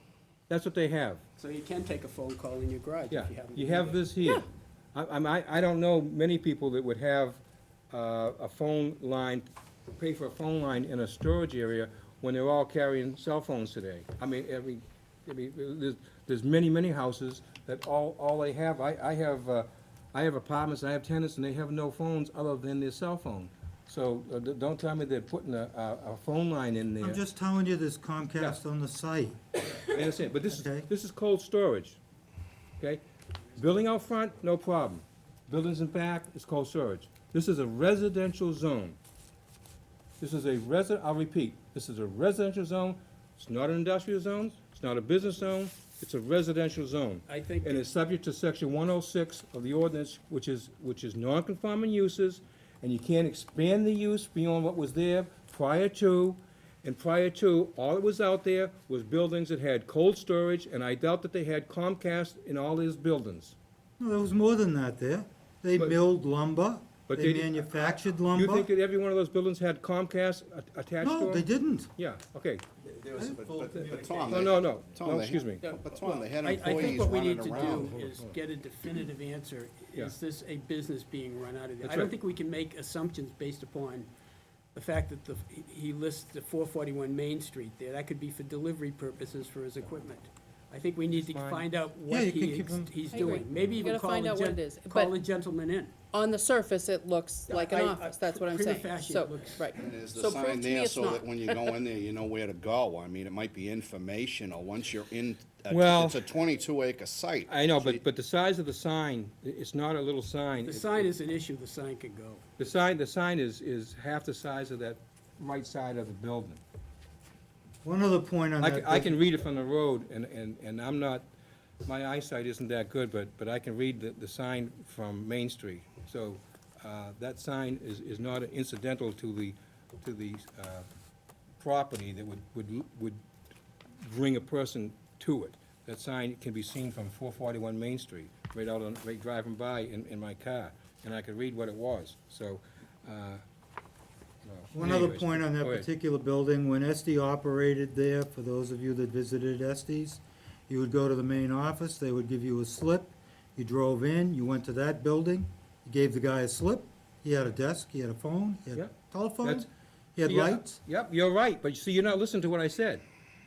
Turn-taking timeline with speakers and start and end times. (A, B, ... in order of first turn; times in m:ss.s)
0:00.5-0:01.2 A
0:01.4-0:04.0 B
0:03.1-0:07.4 A
0:07.9-0:27.2 A
0:27.0-0:29.4 C
0:29.8-0:32.0 A
0:30.5-0:30.8 C
0:33.6-0:39.0 A
0:40.2-1:03.5 A
0:47.3-0:47.8 B
1:04.0-1:08.7 C
1:07.1-1:12.6 A
1:11.0-1:11.9 C
1:13.0-1:14.4 C
1:13.1-1:17.8 D
1:14.2-1:15.6 A
1:15.6-1:24.1 B
1:16.7-1:18.4 A
1:21.8-1:22.1 A
1:24.7-1:36.0 B
1:31.1-1:31.6 A
1:32.1-1:33.0 C
1:33.1-1:35.1 E
1:36.1-1:41.8 E
1:37.5-1:39.7 B
1:39.8-1:48.0 D
1:45.7-1:46.2 A
1:47.5-1:51.1 A
1:50.6-1:52.4 B
1:52.6-1:56.6 A
1:57.8-1:59.2 C
1:58.6-2:01.2 A
2:01.8-2:10.8 A
2:11.6-2:13.2 A
2:14.0-2:23.4 A
2:24.4-2:25.9 A
2:24.7-2:40.8 C
2:38.7-2:39.6 A
2:40.2-2:43.0 A